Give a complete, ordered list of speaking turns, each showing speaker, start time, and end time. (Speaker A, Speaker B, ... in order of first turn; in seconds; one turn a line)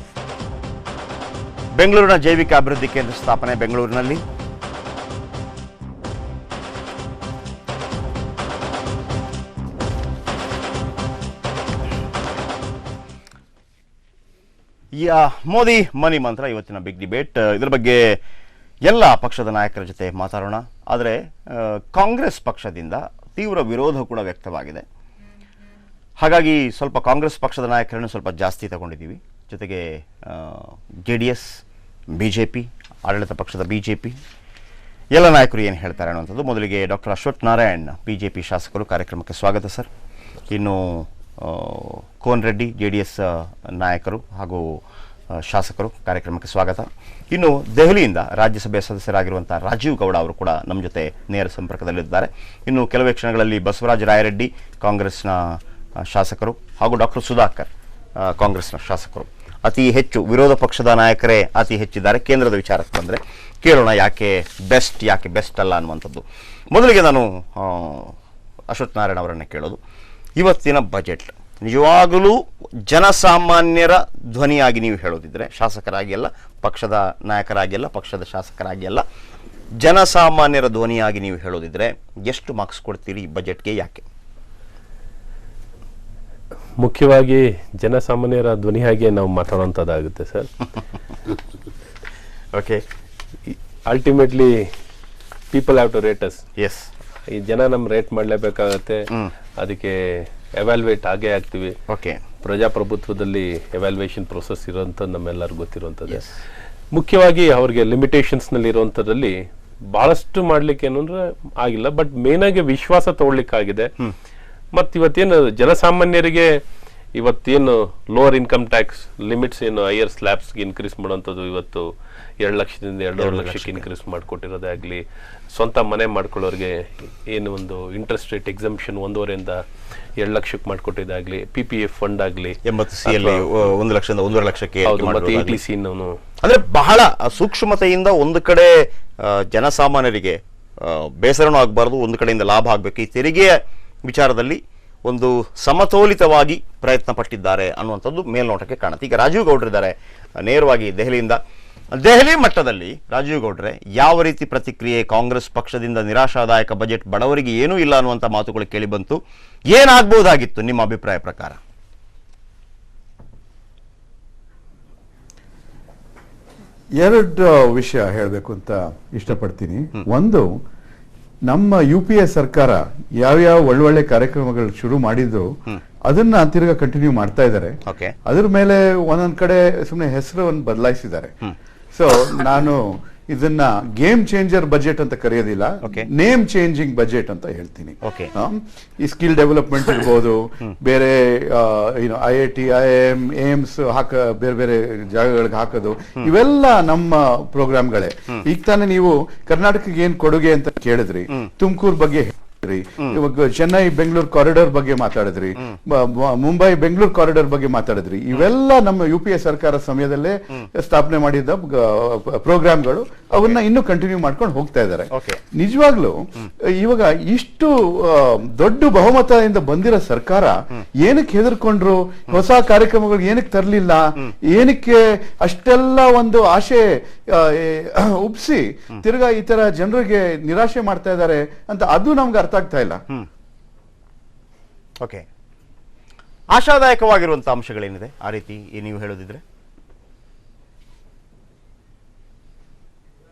Speaker A: 1.8-4.2
Speaker A: 14.9-18.2
Speaker A: 18.9-24.8
Speaker A: 26.2-31.6
Speaker A: 32.1-34.1
Speaker A: 35.1-39.9
Speaker A: 40.5-44.8
Speaker A: 45.3-68.1
Speaker A: 68.7-69.8
Speaker A: 70.4-79.0
Speaker A: 79.8-84.0
Speaker B: 86.8-90.5
Speaker A: 92.5-92.8
Speaker B: 93.5-94.7
Speaker B: 95.5-96.4
Speaker A: 96.6-96.9
Speaker B: 97.3-99.1
Speaker B: 99.6-101.8
Speaker A: 101.9-102.2
Speaker B: 102.4-106.3
Speaker B: 106.9-113.9
Speaker B: 114.7-116.6
Speaker B: 117.1-121.9
Speaker B: 122.4-125.0
Speaker A: 123.2-123.8
Speaker B: 125.5-129.6
Speaker B: 130.2-133.6
Speaker A: 132.6-135.6
Speaker B: 134.8-136.1
Speaker A: 136.4-151.4
Speaker A: 151.9-159.2
Speaker A: 159.7-161.6
Speaker C: 167.0-170.5
Speaker C: 171.5-175.5
Speaker C: 176.1-181.3
Speaker A: 177.8-178.1
Speaker C: 181.9-233.0
Speaker A: 188.0-188.3
Speaker A: 215.1-215.4
Speaker A: 236.5-239.4